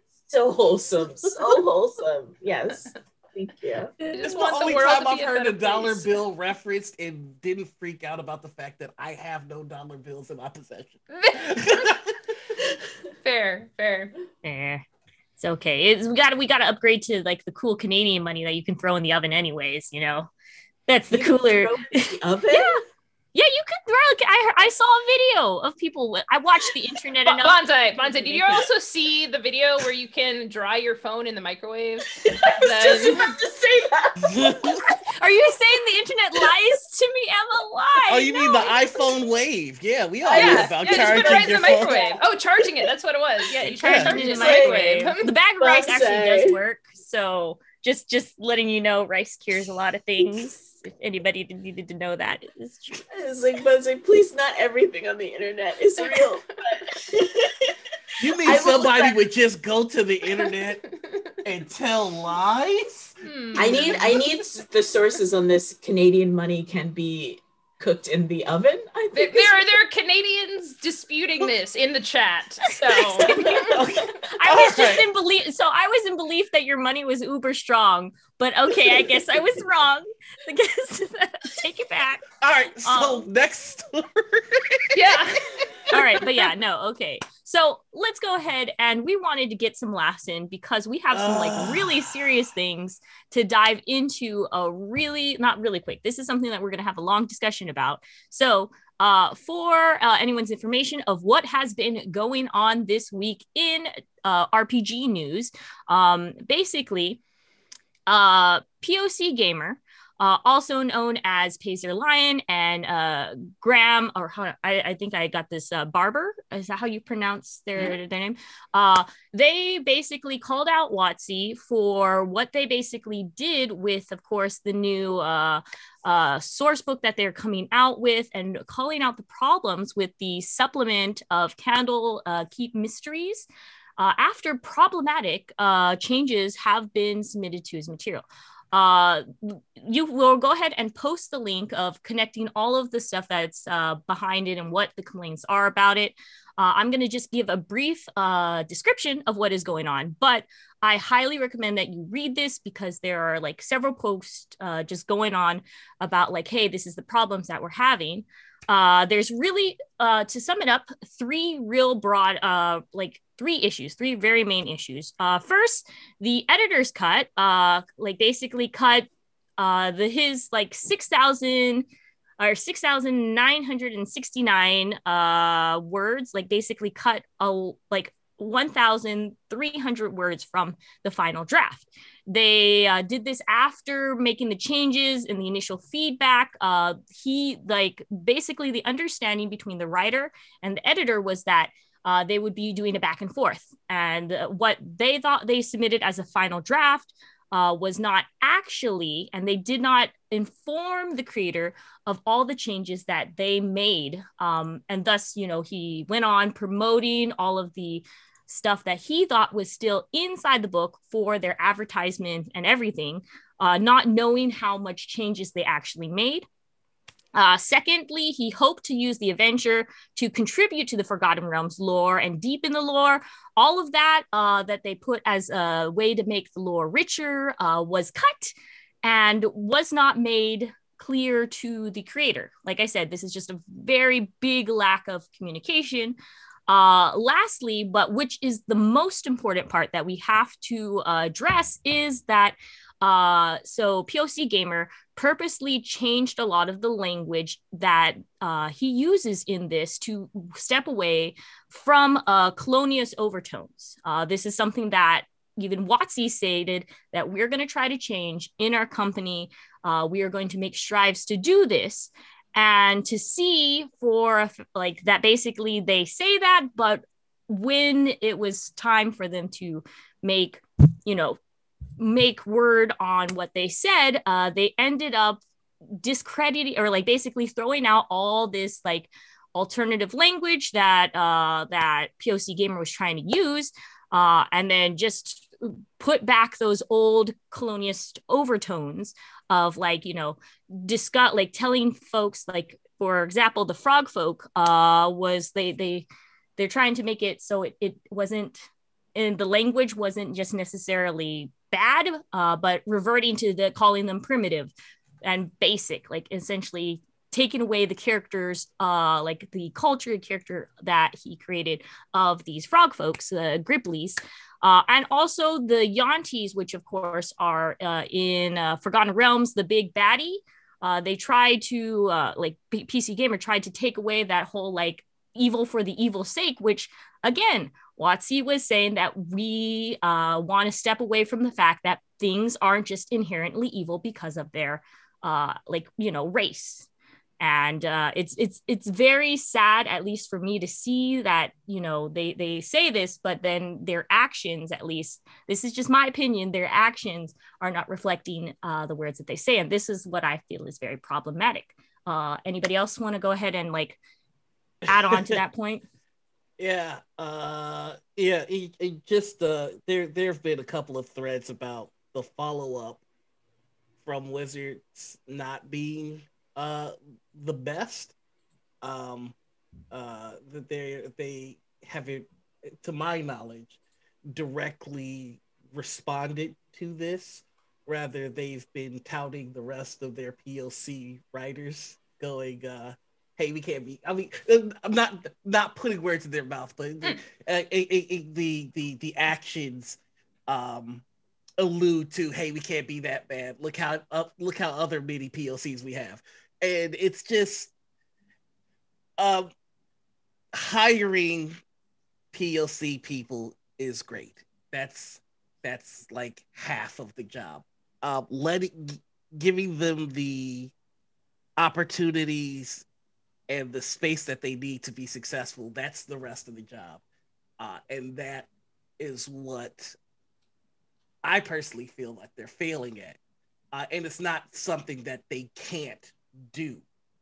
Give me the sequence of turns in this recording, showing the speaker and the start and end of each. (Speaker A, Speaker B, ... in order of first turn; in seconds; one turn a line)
Speaker A: 0.3-3.9
Speaker B: 4.0-6.2
Speaker C: 4.2-12.6
Speaker B: 11.1-11.9
Speaker B: 13.2-14.1
Speaker D: 14.4-14.8
Speaker D: 15.4-20.3
Speaker D: 20.9-22.8
Speaker A: 21.1-22.8
Speaker D: 23.3-28.7
Speaker B: 27.3-33.3
Speaker A: 32.1-34.8
Speaker C: 34.2-34.8
Speaker D: 34.9-38.7
Speaker C: 38.1-42.1
Speaker A: 40.2-42.2
Speaker B: 40.3-45.3
Speaker D: 43.5-53.0
Speaker C: 43.7-44.1
Speaker A: 44.1-44.9
Speaker A: 45.6-46.6
Speaker A: 53.1-57.8
Speaker C: 58.2-60.9
Speaker A: 58.4-59.3
Speaker C: 61.4-64.2
Speaker B: 63.2-64.2
Speaker A: 63.5-69.8
Speaker B: 69.1-73.8
Speaker A: 73.0-74.1
Speaker C: 73.7-75.1
Speaker D: 74.3-82.3
Speaker C: 82.4-86.0
Speaker D: 82.8-83.2
Speaker B: 84.9-85.6
Speaker D: 85.9-107.2
Speaker C: 91.1-92.1
Speaker D: 108.1-133.5
Speaker D: 134.0-171.9
Speaker D: 172.4-216.4
Speaker D: 217.3-236.2
Speaker D: 236.7-271.4
Speaker D: 272.0-275.4
Speaker D: 276.0-296.1
Speaker D: 296.6-336.9
Speaker D: 337.4-354.0
Speaker D: 354.9-355.8
Speaker C: 355.1-355.4
Speaker C: 356.6-363.0
Speaker C: 364.0-368.1
Speaker C: 368.8-369.3
Speaker C: 369.9-372.3
Speaker C: 372.8-373.8
Speaker C: 374.3-391.0
Speaker C: 391.6-397.7
Speaker C: 399.2-399.5
Speaker C: 400.5-401.6
Speaker C: 402.3-410.7
Speaker C: 411.6-412.8
Speaker C: 413.5-417.0
Speaker C: 417.6-419.9
Speaker C: 421.2-423.2
Speaker C: 423.7-426.8